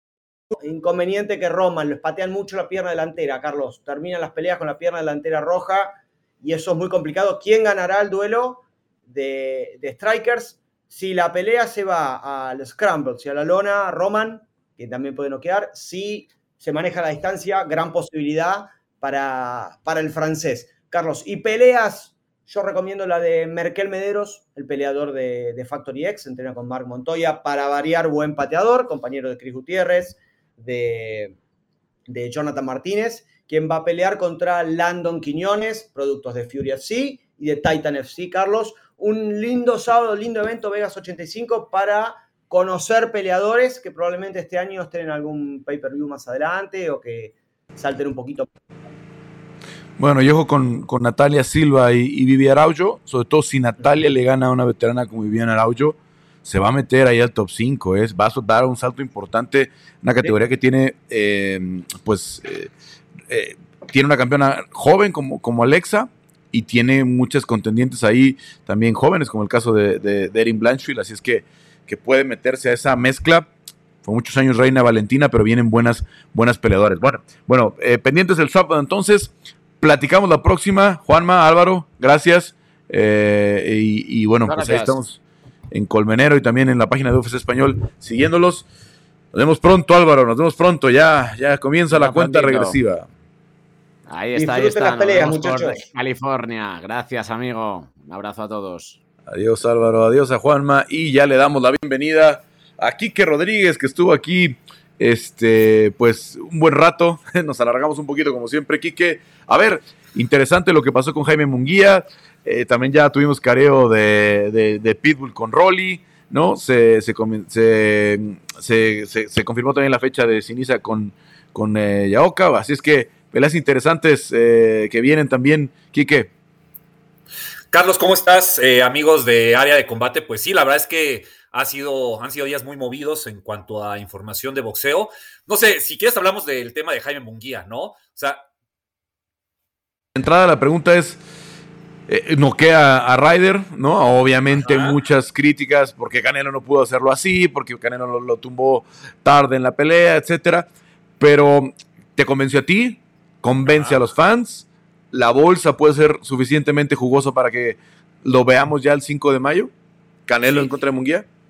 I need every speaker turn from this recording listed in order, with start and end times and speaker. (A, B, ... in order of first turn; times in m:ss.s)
0:00.6-0:31.4 A
0:32.1-0:48.5 A
0:50.0-1:02.7 B
1:03.3-1:13.5 B
1:14.0-1:25.2 B
1:24.5-1:25.0 C
1:25.7-1:28.6 B
1:29.3-1:33.1 B
1:31.9-1:32.8 C
1:34.1-1:39.0 C
1:34.4-1:35.8 A
1:39.3-2:06.3 B
2:07.7-2:18.4 D
2:20.1-2:21.2 B
2:22.1-2:39.7 B
2:24.5-2:25.0 D
2:33.7-2:34.0 D
2:40.3-2:41.3 B
2:40.4-2:40.7 D